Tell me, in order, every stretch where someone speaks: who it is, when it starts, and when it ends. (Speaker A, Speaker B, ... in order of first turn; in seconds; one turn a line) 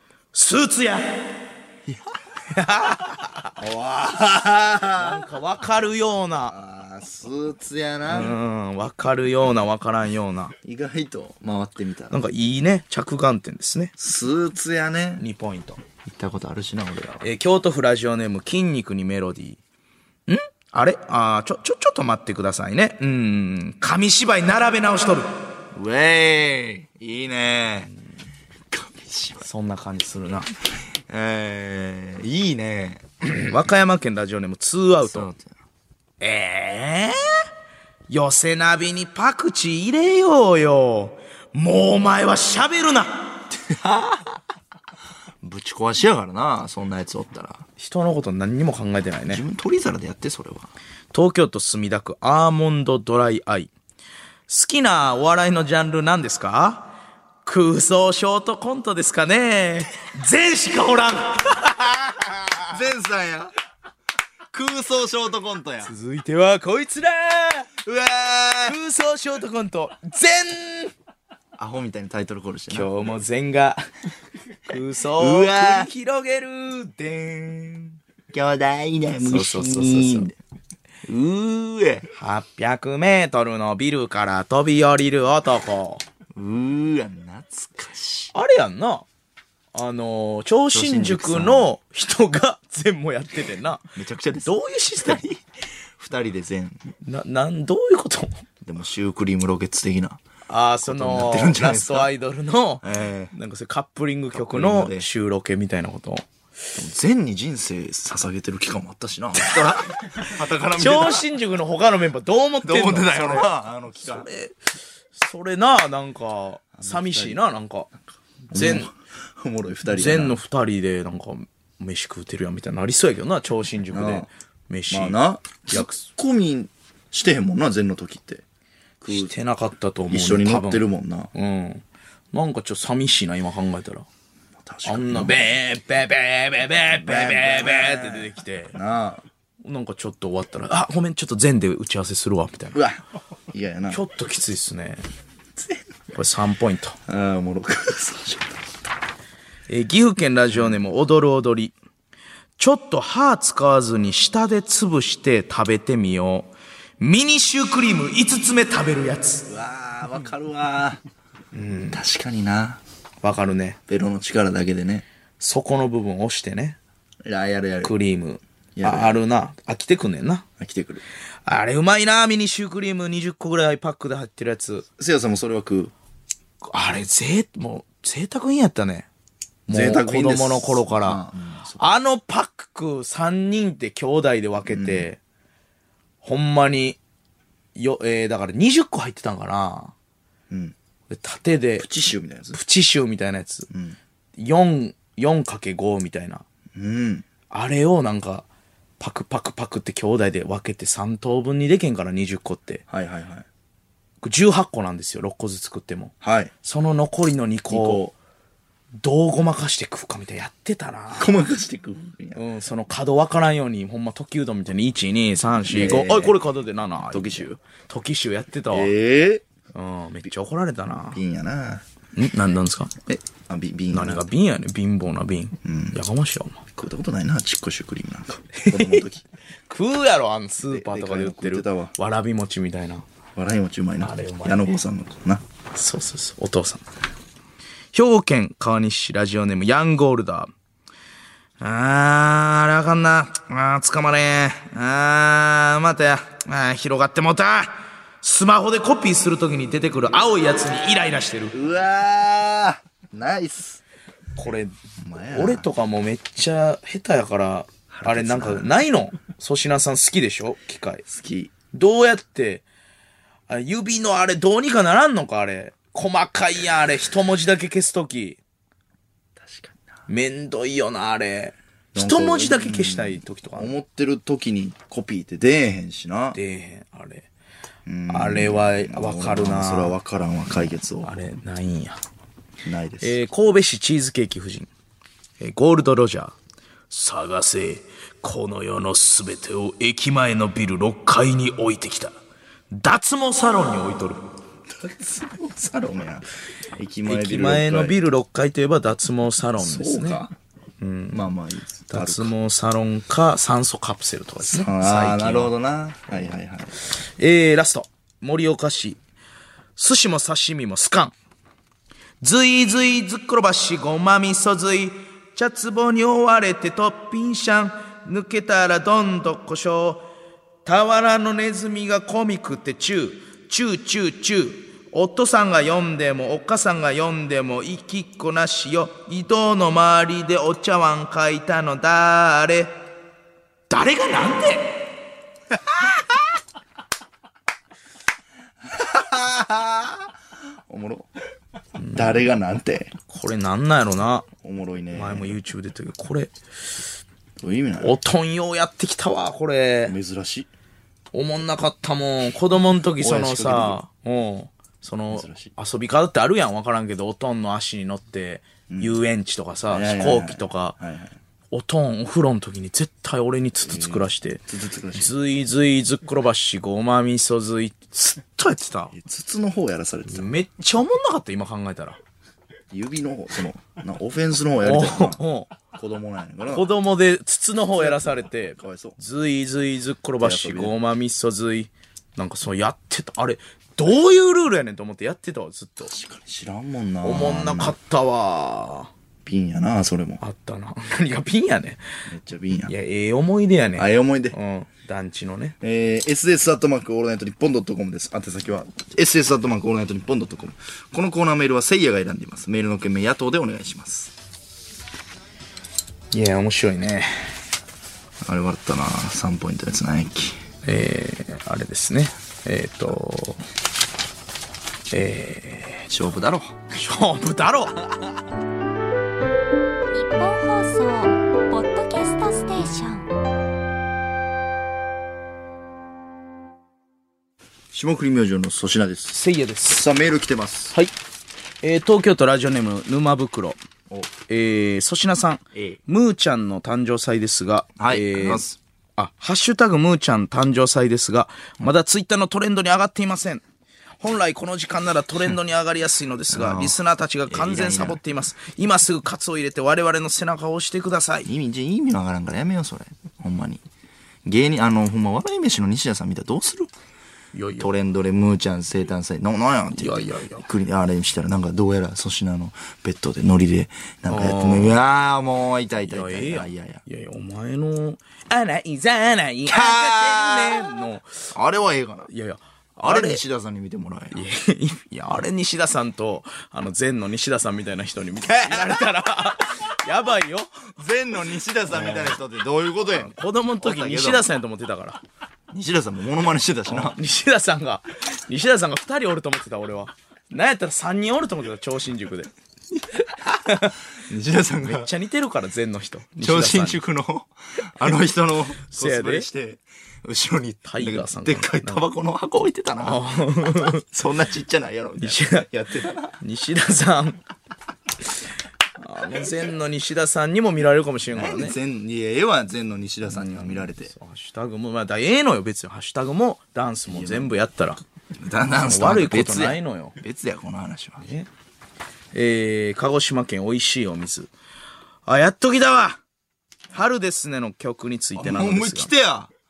Speaker A: 0.3-1.4
Speaker A: 2.5-3.5
Speaker B: 3.6-5.2
Speaker A: 5.0-6.5
Speaker B: 6.5-8.3
Speaker A: 8.1-10.5
Speaker B: 10.6-12.2
Speaker A: 12.1-13.9
Speaker B: 14.0-15.2
Speaker A: 15.2-15.8
Speaker B: 16.1-17.2
Speaker A: 17.2-19.6
Speaker A: 20.3-25.3
Speaker B: 25.7-27.9
Speaker B: 28.7-29.5
Speaker A: 29.4-30.5
Speaker B: 31.1-33.5
Speaker A: 33.2-35.3
Speaker B: 35.1-35.5
Speaker A: 36.2-37.5
Speaker A: 38.1-43.5
Speaker B: 43.5-44.4
Speaker B: 45.4-47.6
Speaker A: 47.8-49.4
Speaker B: 49.3-50.7
Speaker A: 51.1-53.7
Speaker A: 54.5-56.9
Speaker A: 57.4-62.7
Speaker B: 62.6-63.5
Speaker B: 64.5-65.9
Speaker A: 65.8-67.7
Speaker B: 67.8-68.8
Speaker A: 68.6-70.9
Speaker B: 71.6-72.9
Speaker A: 72.7-73.8
Speaker A: 74.7-77.9
Speaker B: 75.2-75.9
Speaker B: 78.3-80.4
Speaker A: 79.2-80.3
Speaker B: 81.1-82.1
Speaker A: 82.1-86.0
Speaker B: 86.3-88.3
Speaker A: 88.3-89.0
Speaker A: 89.7-95.2
Speaker B: 90.7-91.7
Speaker B: 94.0-95.4
Speaker B: 96.0-96.8
Speaker A: 97.0-98.4
Speaker B: 98.6-100.2
Speaker A: 100.5-106.3
Speaker B: 100.8-102.1
Speaker B: 102.8-103.3
Speaker B: 104.3-105.1
Speaker B: 106.7-111.2
Speaker A: 109.4-109.7
Speaker A: 110.7-113.5
Speaker B: 112.6-114.3
Speaker A: 114.0-117.9
Speaker B: 116.7-117.4
Speaker B: 118.5-120.4
Speaker A: 118.5-118.9
Speaker A: 119.9-126.0
Speaker B: 123.9-124.3
Speaker B: 124.9-128.4
Speaker B: 129.0-129.3
Speaker A: 129.1-134.1
Speaker B: 130.1-131.3
Speaker B: 134.6-135.5
Speaker A: 134.8-138.8
Speaker B: 136.9-139.2
Speaker A: 139.6-142.8
Speaker B: 142.7-143.0
Speaker B: 143.5-144.0
Speaker A: 143.9-145.0
Speaker A: 146.1-146.9
Speaker B: 147.1-148.6
Speaker A: 149.7-151.7
Speaker A: 152.6-159.4
Speaker B: 159.5-161.0
Speaker A: 161.5-162.0
Speaker B: 161.9-162.8
Speaker A: 163.2-163.8
Speaker B: 163.9-165.0
Speaker A: 165.4-166.8
Speaker B: 167.2-167.9
Speaker A: 167.8-170.4
Speaker B: 168.8-169.2
Speaker B: 170.6-171.0
Speaker A: 171.4-174.8
Speaker B: 175.0-175.9
Speaker A: 176.6-179.1
Speaker A: 179.7-181.2
Speaker B: 179.7-181.8
Speaker A: 181.8-185.2
Speaker B: 184.7-185.1
Speaker A: 186.2-187.0
Speaker A: 187.7-189.9
Speaker A: 191.1-191.8
Speaker B: 191.8-192.6
Speaker A: 192.5-193.7
Speaker B: 193.7-194.0
Speaker A: 194.4-196.4
Speaker B: 196.7-197.2
Speaker A: 197.5-198.4
Speaker A: 199.0-202.8
Speaker B: 202.9-203.4
Speaker A: 204.2-208.0
Speaker B: 206.2-206.5
Speaker B: 207.7-208.1
Speaker A: 209.0-211.3
Speaker B: 211.2-212.4
Speaker A: 212.3-218.9
Speaker B: 215.6-216.4
Speaker B: 217.0-217.6
Speaker B: 218.7-219.4
Speaker A: 219.7-221.2
Speaker B: 221.1-221.8
Speaker A: 222.1-222.9
Speaker B: 223.1-224.2
Speaker A: 223.9-226.6
Speaker B: 225.6-226.0
Speaker B: 226.7-229.2
Speaker A: 228.6-229.0
Speaker A: 229.7-233.0
Speaker B: 230.7-231.9
Speaker B: 233.3-235.4
Speaker A: 234.0-234.7
Speaker A: 235.7-236.8
Speaker A: 237.9-240.5
Speaker A: 241.6-251.5
Speaker B: 251.5-253.8
Speaker A: 254.3-254.7
Speaker B: 255.0-255.7
Speaker A: 255.3-261.0
Speaker B: 257.9-258.7
Speaker B: 261.1-261.5
Speaker A: 261.7-262.6
Speaker A: 263.5-268.4
Speaker B: 269.4-269.9
Speaker A: 270.1-273.7
Speaker B: 271.9-276.4
Speaker A: 276.3-277.3
Speaker B: 277.9-281.1
Speaker A: 278.1-279.9
Speaker A: 281.0-282.0
Speaker B: 282.6-283.2
Speaker A: 283.0-284.7
Speaker A: 285.4-286.3
Speaker A: 286.9-292.1
Speaker A: 292.7-294.2
Speaker B: 294.8-297.9
Speaker A: 297.1-300.2
Speaker B: 299.6-300.3
Speaker A: 300.8-301.2
Speaker B: 301.1-302.3
Speaker A: 301.9-305.5
Speaker B: 304.4-306.7
Speaker A: 307.2-309.0
Speaker A: 309.8-311.1
Speaker A: 312.2-320.1
Speaker A: 320.6-332.8
Speaker A: 333.7-334.8
Speaker B: 338.6-340.1
Speaker B: 340.7-341.1
Speaker A: 341.8-342.2
Speaker B: 341.9-342.9
Speaker A: 343.1-344.3
Speaker B: 344.4-345.4
Speaker A: 344.9-346.3
Speaker B: 347.4-347.9
Speaker A: 347.8-349.9
Speaker B: 349.9-350.5
Speaker A: 351.1-360.8
Speaker B: 353.0-353.8
Speaker B: 355.1-355.5
Speaker B: 358.7-359.0
Speaker B: 359.7-361.1
Speaker A: 361.5-368.9
Speaker B: 363.6-365.1
Speaker B: 368.9-370.4
Speaker A: 370.1-372.0
Speaker B: 372.7-375.2
Speaker A: 374.6-375.5
Speaker B: 375.7-376.7
Speaker A: 376.4-385.9
Speaker B: 377.8-379.0
Speaker B: 380.2-380.7
Speaker B: 385.9-387.8
Speaker A: 387.0-388.9
Speaker B: 389.2-390.2
Speaker A: 390.2-391.8
Speaker B: 392.1-392.7
Speaker A: 392.6-395.6
Speaker B: 393.8-394.4
Speaker B: 395.6-404.1
Speaker A: 406.1-407.3
Speaker B: 408.2-410.4
Speaker A: 410.6-413.4
Speaker A: 414.9-415.9
Speaker B: 415.9-416.6
Speaker A: 416.7-417.8
Speaker C: 419.9-423.1
Speaker B: 427.7-430.8
Speaker A: 429.1-429.9
Speaker A: 431.6-433.6
Speaker A: 434.2-438.4
Speaker B: 437.8-438.6
Speaker A: 439.0-443.4
Speaker A: 444.0-451.3
Speaker B: 446.3-448.0
Speaker B: 451.2-453.6
Speaker B: 454.2-456.7
Speaker A: 457.3-457.7
Speaker B: 457.6-466.8
Speaker A: 459.8-460.4
Speaker A: 464.1-464.8
Speaker A: 465.8-471.3
Speaker B: 469.4-472.1
Speaker A: 472.1-473.2
Speaker B: 472.8-474.2
Speaker A: 474.1-480.5
Speaker B: 478.2-478.9
Speaker B: 480.8-484.2
Speaker A: 481.7-482.2
Speaker A: 482.9-485.0
Speaker B: 485.5-487.0
Speaker A: 486.7-492.3
Speaker A: 493.4-493.7
Speaker B: 494.0-494.9
Speaker A: 494.6-496.8
Speaker B: 496.2-506.2
Speaker A: 498.7-499.3
Speaker A: 500.6-501.8
Speaker A: 502.8-503.8
Speaker A: 505.0-505.5
Speaker A: 506.2-507.2
Speaker A: 508.8-511.6
Speaker B: 511.1-513.9
Speaker A: 513.1-517.8
Speaker B: 516.9-517.3
Speaker B: 518.2-521.1
Speaker A: 518.5-520.0
Speaker A: 521.0-521.3
Speaker A: 522.1-524.3
Speaker A: 525.0-526.0
Speaker A: 526.7-528.9
Speaker B: 528.1-529.3